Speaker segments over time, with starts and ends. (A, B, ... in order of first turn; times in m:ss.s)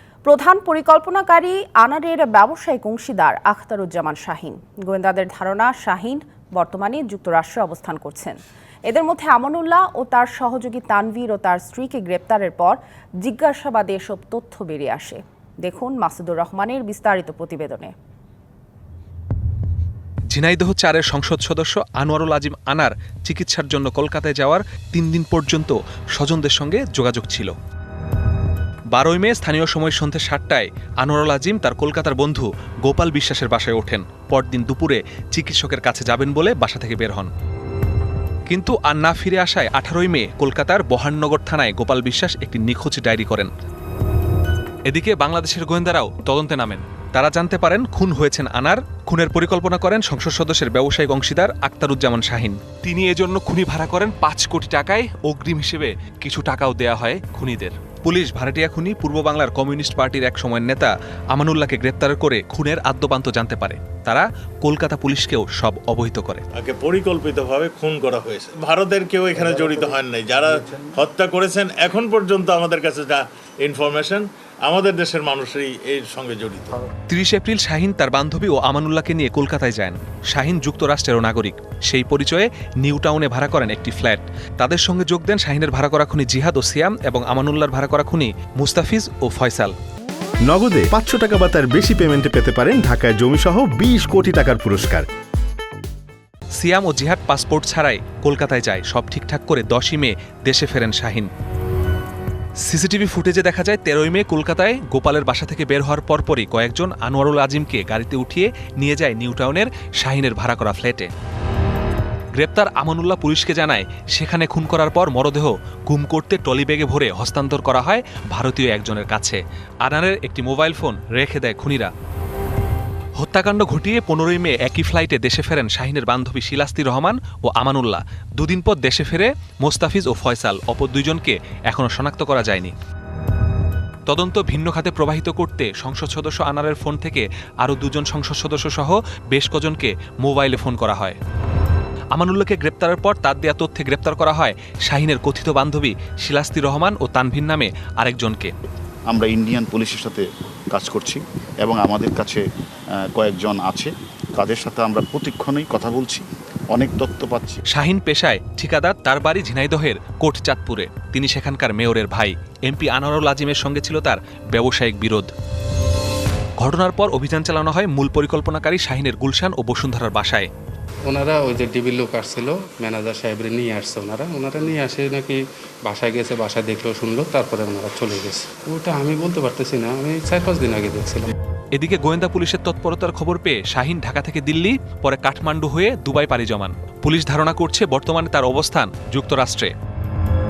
0:00.2-0:17.9 A
0:20.3-0:27.5 B
0:29.0-0:37.3 B
0:38.5-0:43.5 B
0:44.9-1:06.4 B
1:06.6-1:16.8 C
1:17.1-1:29.7 B
1:30.5-1:35.1 D
1:36.6-1:41.3 B
1:42.6-1:51.1 B
1:52.4-2:01.9 B
2:03.2-2:12.7 B
2:14.1-2:21.2 B
2:22.2-2:28.5 B
2:29.1-2:32.4 E
2:33.0-2:37.6 E
2:37.7-2:45.3 B
2:46.6-2:50.5 B
2:51.1-3:01.3 F
3:01.8-3:09.7 B